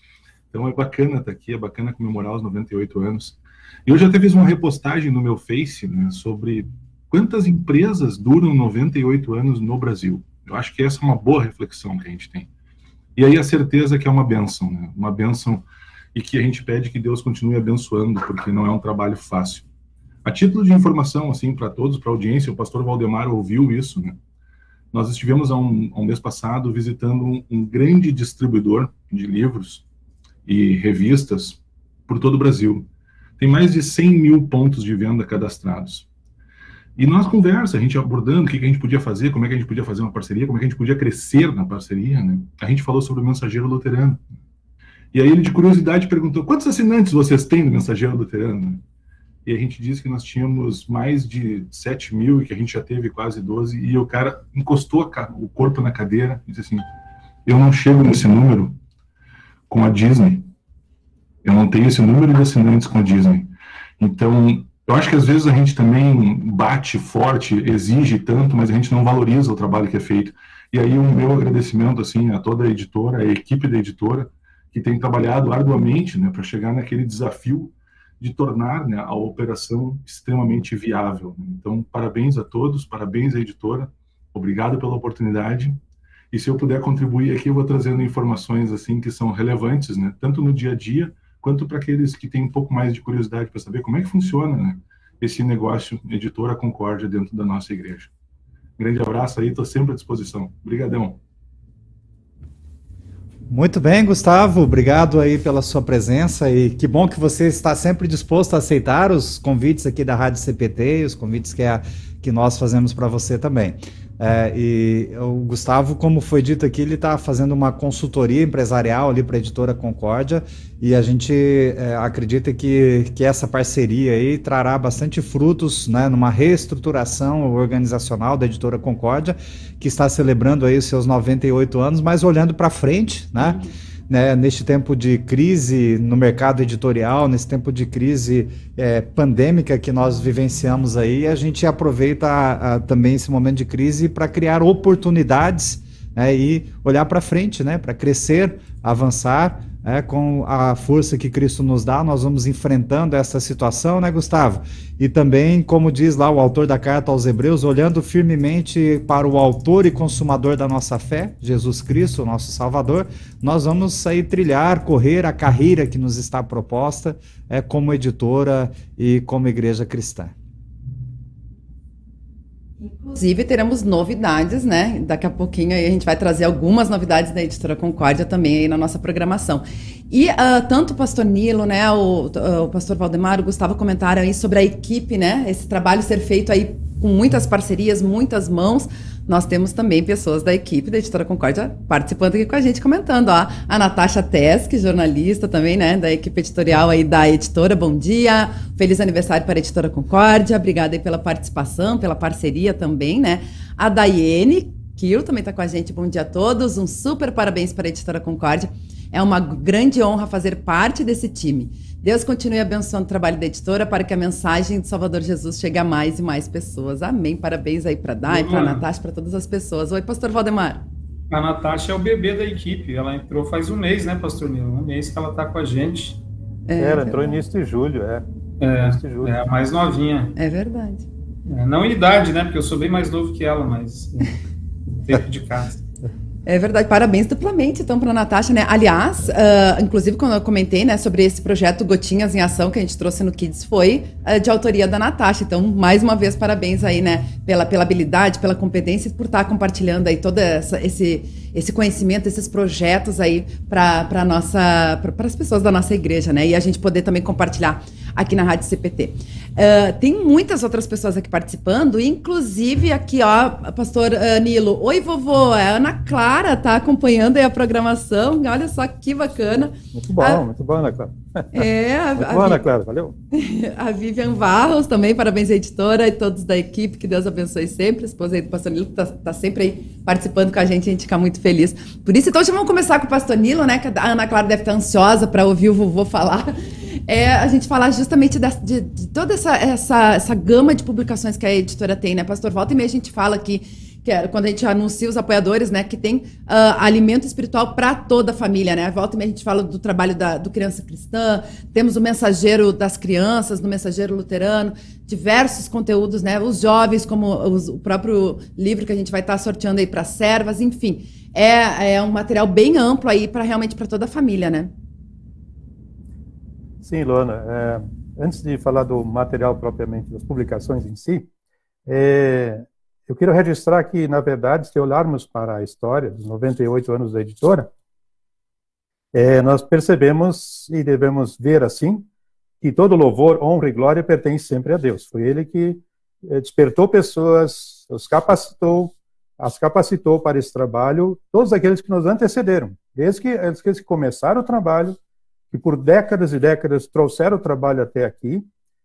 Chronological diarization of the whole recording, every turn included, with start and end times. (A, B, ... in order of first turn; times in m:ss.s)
0:00.5-0:12.5 A
0:13.2-0:19.7 A
0:20.2-0:24.2 A
0:24.9-0:29.8 A
0:30.5-0:32.9 A
0:33.4-0:36.1 A
0:37.0-0:44.3 A
0:45.1-0:48.8 A
0:49.4-0:56.8 A
0:57.5-0:58.8 A
0:59.7-1:00.5 A
1:01.4-1:25.8 A
1:26.3-1:38.1 A
1:38.8-1:41.2 A
1:43.5-2:50.3 B
2:52.8-3:40.8 C
3:38.3-3:38.8 D
3:41.3-3:46.2 D
3:46.7-3:47.2 C
3:46.8-3:48.2 E
3:48.6-3:50.3 D
3:48.8-3:49.4 E
3:50.4-3:51.1 C
3:51.5-3:54.4 D
3:55.1-3:55.8 D
3:56.5-4:30.4 C
4:30.0-4:31.6 E
4:31.5-4:32.6 C
4:32.2-4:33.1 E
4:33.3-4:46.6 C
4:47.1-5:14.7 C
5:16.8-5:21.3 E
5:21.9-5:27.7 E
5:29.1-5:32.1 E
5:32.6-5:45.0 E
5:45.5-5:48.4 E